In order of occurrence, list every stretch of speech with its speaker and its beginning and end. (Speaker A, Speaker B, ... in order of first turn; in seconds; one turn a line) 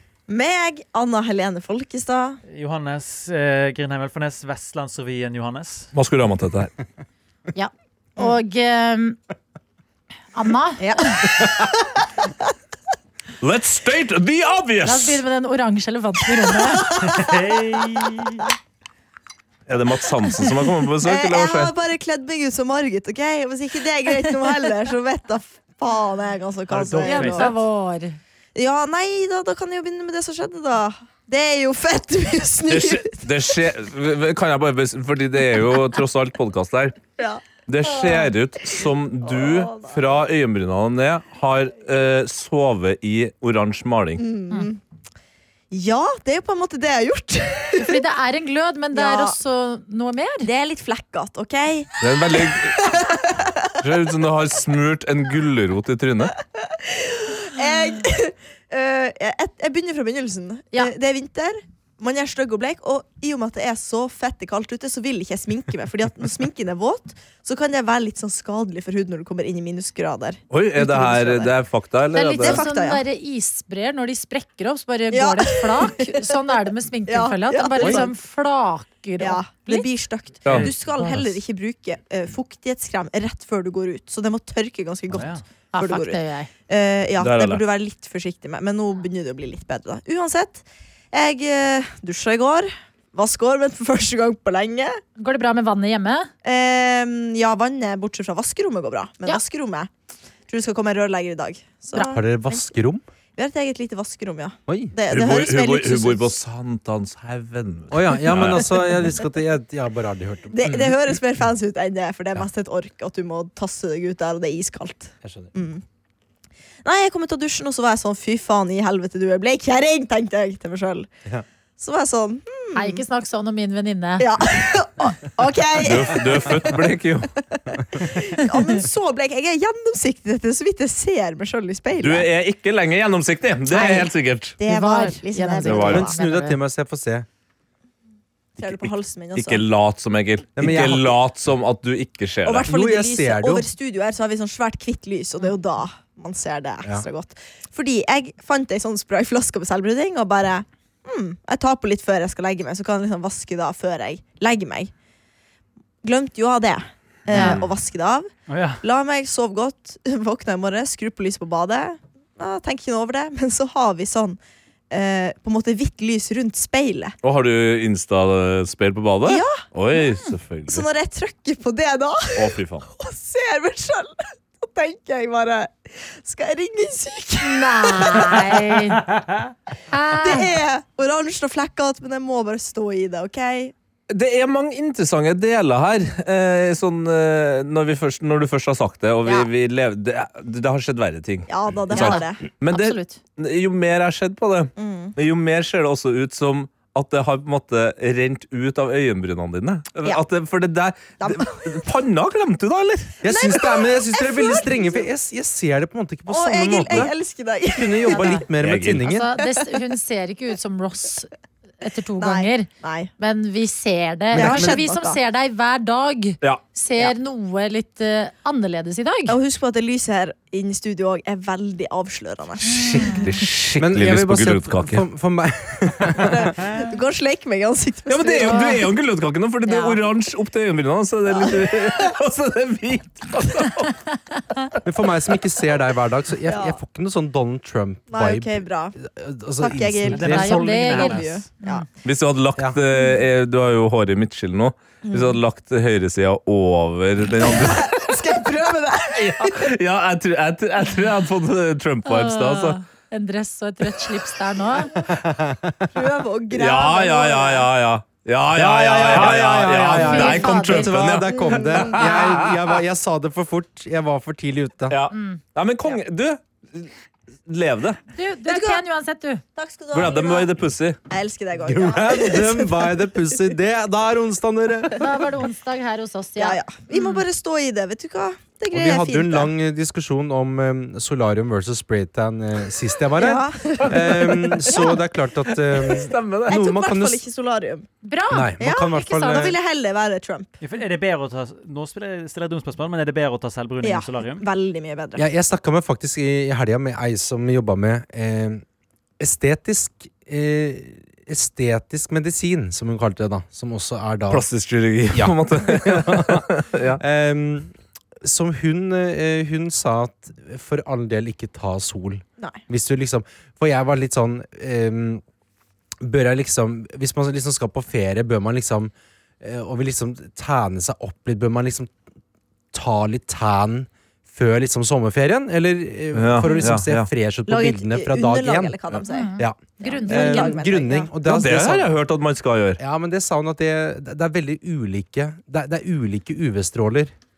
Speaker A: 0.3-2.4
Speaker B: 2.5-5.9
Speaker C: 6.0-6.7
Speaker D: 7.5-9.2
Speaker D: 10.3-11.2
Speaker A: 10.8-11.8
Speaker C: 13.4-15.2
Speaker D: 14.8-17.0
Speaker B: 16.9-18.5
Speaker C: 19.7-21.7
Speaker A: 21.0-27.5
Speaker B: 26.7-27.5
Speaker D: 27.0-28.2
Speaker A: 28.6-33.2
Speaker C: 32.7-37.0
Speaker A: 37.2-38.3
Speaker C: 37.7-44.2
Speaker A: 39.2-40.0
Speaker A: 44.2-44.8
Speaker A: 45.7-48.0
Speaker D: 47.8-50.5
Speaker A: 48.9-49.4
Speaker A: 50.4-53.7
Speaker C: 52.0-52.9
Speaker C: 53.8-56.3
Speaker A: 56.6-71.5
Speaker C: 70.5-72.7
Speaker D: 72.2-79.9
Speaker A: 72.4-73.0
Speaker A: 75.1-76.3
Speaker A: 77.1-78.1
Speaker A: 79.2-95.0
Speaker C: 80.5-80.7
Speaker B: 85.1-85.4
Speaker D: 85.7-86.5
Speaker C: 87.2-87.6
Speaker D: 95.2-96.3
Speaker A: 96.4-99.9
Speaker A: 100.5-102.7
Speaker E: 102.0-103.0
Speaker A: 103.4-106.3
Speaker E: 104.7-104.9
Speaker C: 105.1-109.0
Speaker E: 107.9-111.0
Speaker A: 110.5-115.8
Speaker E: 115.2-115.5
Speaker A: 116.8-121.1
Speaker A: 121.8-123.0
Speaker D: 122.8-124.3
Speaker A: 124.2-126.9
Speaker C: 125.8-127.3
Speaker A: 127.5-132.3
Speaker C: 132.0-134.6
Speaker A: 133.7-136.1
Speaker D: 134.7-136.6
Speaker C: 135.7-136.1
Speaker E: 135.8-137.3
Speaker A: 138.6-139.6
Speaker C: 139.3-142.7
Speaker E: 140.6-141.2
Speaker A: 142.4-154.9
Speaker E: 142.7-143.7
Speaker A: 156.0-158.3
Speaker C: 157.3-157.7
Speaker D: 157.3-157.6
Speaker B: 158.5-158.8
Speaker A: 158.8-164.4
Speaker A: 164.9-167.2
Speaker C: 167.2-170.8
Speaker A: 169.3-169.5
Speaker A: 170.7-178.8
Speaker C: 172.3-172.8
Speaker D: 177.4-179.0
Speaker B: 179.1-179.4
Speaker D: 179.9-180.5
Speaker A: 180.2-183.7
Speaker C: 184.1-203.3
Speaker A: 191.5-192.4
Speaker D: 191.9-193.2
Speaker A: 194.8-195.2
Speaker A: 201.2-201.8
Speaker E: 203.2-207.1
Speaker A: 203.3-205.0
Speaker A: 206.3-208.4
Speaker E: 207.7-209.3
Speaker D: 208.1-208.4
Speaker C: 208.6-209.1
Speaker D: 209.1-211.3
Speaker D: 211.8-212.7
Speaker A: 212.2-213.1
Speaker D: 213.2-219.4
Speaker A: 214.3-215.2
Speaker A: 219.3-223.3
Speaker D: 222.7-223.3
Speaker C: 223.0-225.1
Speaker E: 223.8-226.5
Speaker A: 226.1-228.8
Speaker C: 228.1-234.0
Speaker D: 228.4-228.8
Speaker D: 229.7-230.0
Speaker E: 234.8-240.6
Speaker A: 236.5-236.8
Speaker A: 238.1-239.0
Speaker A: 239.6-241.8
Speaker B: 240.1-241.3
Speaker D: 240.2-241.8
Speaker C: 242.0-248.1
Speaker A: 245.1-245.4
Speaker A: 247.4-249.7
Speaker C: 249.2-252.8
Speaker D: 252.1-254.9
Speaker E: 255.0-255.8
Speaker A: 255.9-257.7
Speaker C: 256.5-262.5
Speaker E: 258.5-265.0
Speaker D: 260.0-260.9
Speaker A: 260.0-260.4
Speaker A: 261.0-262.5
Speaker C: 264.9-266.9
Speaker D: 265.1-265.4
Speaker C: 267.5-268.0
Speaker D: 268.1-269.4
Speaker A: 268.5-268.8
Speaker A: 269.6-270.5
Speaker C: 269.9-271.0
Speaker A: 271.1-273.0
Speaker E: 271.6-275.1
Speaker D: 275.0-277.2
Speaker A: 276.4-279.5
Speaker E: 278.7-287.2
Speaker A: 283.2-285.0
Speaker C: 284.1-284.7
Speaker C: 285.5-286.6
Speaker A: 286.5-287.9
Speaker D: 288.0-289.5
Speaker E: 288.3-289.6
Speaker A: 288.6-290.5
Speaker B: 290.6-294.4
Speaker A: 293.8-295.2
Speaker E: 295.2-298.6
Speaker E: 299.2-304.4
Speaker C: 304.3-307.0
Speaker E: 305.1-315.2
Speaker E: 316.0-321.9
Speaker E: 322.7-328.8
Speaker C: 326.1-327.1
Speaker A: 327.5-331.1
Speaker D: 329.1-330.6
Speaker E: 329.4-331.9
Speaker C: 331.2-332.8
Speaker E: 332.8-337.1